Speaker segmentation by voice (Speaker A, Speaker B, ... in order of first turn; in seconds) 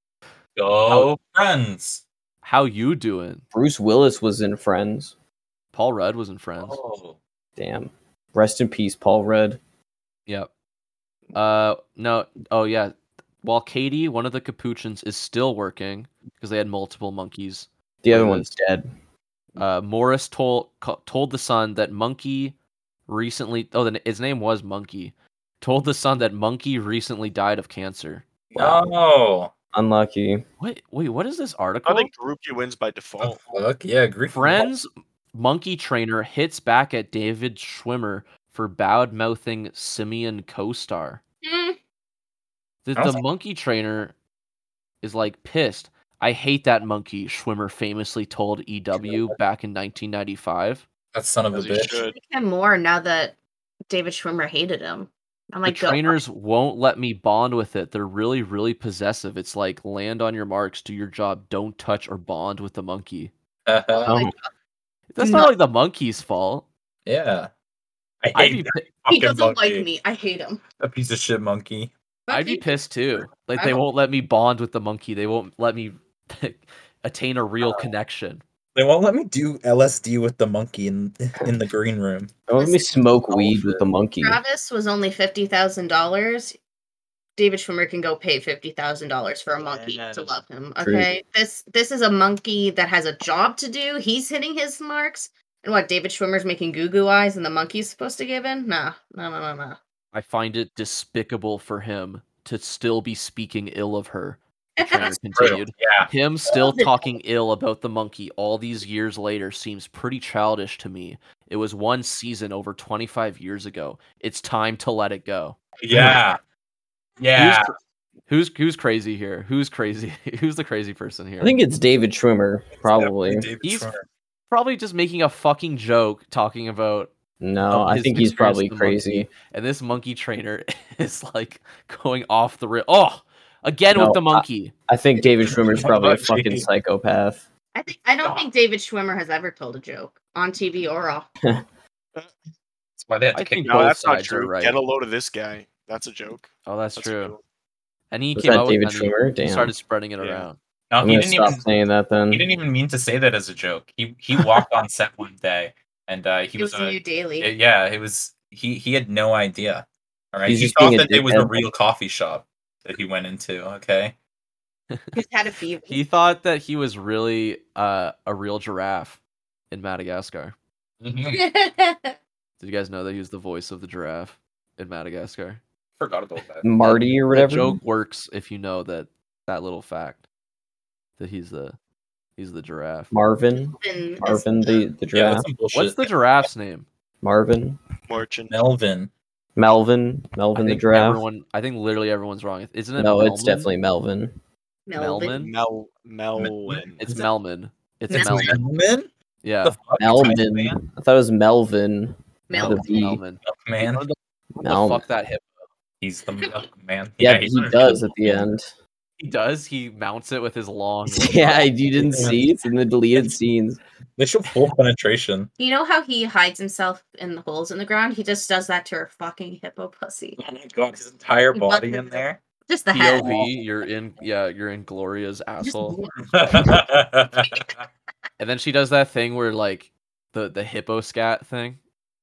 Speaker A: 0.6-2.0, 6.5-7.2, 28.5-29.5, 33.2-34.7, 48.9-49.4, 51.1-52.0, 63.7-64.1, 67.0-67.5, 68.2-69.9, 70.8-71.9, 78.7-82.3, 89.6-90.4, 105.0-106.1, 115.8-116.4, 117.2-117.7, 122.8-124.0, 135.4-136.7, 138.2-138.5, 143.0-143.9, 150.9-151.7, 152.3-164.1, 171.0-171.4, 176.0-176.7, 185.1-186.1, 188.5-189.1, 196.3-197.0, 198.1-199.1, 199.6-200.8, 203.4-204.1, 206.0-208.5, 212.1-212.4, 214.2-215.5, 220.4-222.4, 226.3-227.8
Speaker B: 2.4-3.5, 5.7-6.8, 11.3-18.5, 19.6-22.6, 23.1-28.2, 30.6-32.1, 34.3-41.2, 42.8-44.1, 45.0-50.8, 55.6-63.3, 65.1-66.7, 68.3-68.8, 72.3-78.4, 100.1-115.6, 117.3-117.8, 118.3-121.6, 123.6-123.9, 124.5-127.1, 127.7-134.7, 143.3-144.8, 146.7-147.3, 148.1-150.6, 164.9-165.1, 165.9-169.2, 169.7-170.5, 172.6-175.6, 176.8-180.2, 181.2-181.8, 182.4-183.1, 185.7-186.9, 190.5-193.7, 194.9-195.5, 197.0-198.6, 199.4-199.8, 202.5-205.6, 209.2-212.2, 222.9-226.0, 228.4-231.8
Speaker C: 3.5-5.1, 7.6-9.6, 18.0-18.9, 28.6-28.8, 29.7-30.4, 64.0-64.3, 82.5-84.4, 90.8-91.1, 121.4-123.5, 127.4-129.3, 133.9-137.4, 148.3-149.7, 151.0-152.4, 160.4-161.6, 176.6-177.8, 183.1-185.5, 187.2-187.8, 189.6-191.2, 193.0-194.4, 200.0-203.2, 204.6-205.1, 207.2-208.7, 211.1-213.8
Speaker D: 31.8-33.4, 51.5-52.2, 143.6-147.4, 150.2-150.5, 188.1-188.5, 195.3-197.0
Speaker E: 41.4-41.8, 52.0-53.4, 53.9-56.1, 63.9-64.5, 69.1-70.6, 72.3-72.8, 82.6-83.0, 84.2-86.6, 87.4-99.8, 104.8-105.6, 106.5-107.1, 137.7-141.3, 156.6-157.5, 165.1-166.0, 171.3-172.2, 183.8-184.9, 194.9-195.4, 198.1-198.6, 202.5-203.0, 215.6-220.4, 221.5-223.4, 225.6-226.8, 227.4-227.7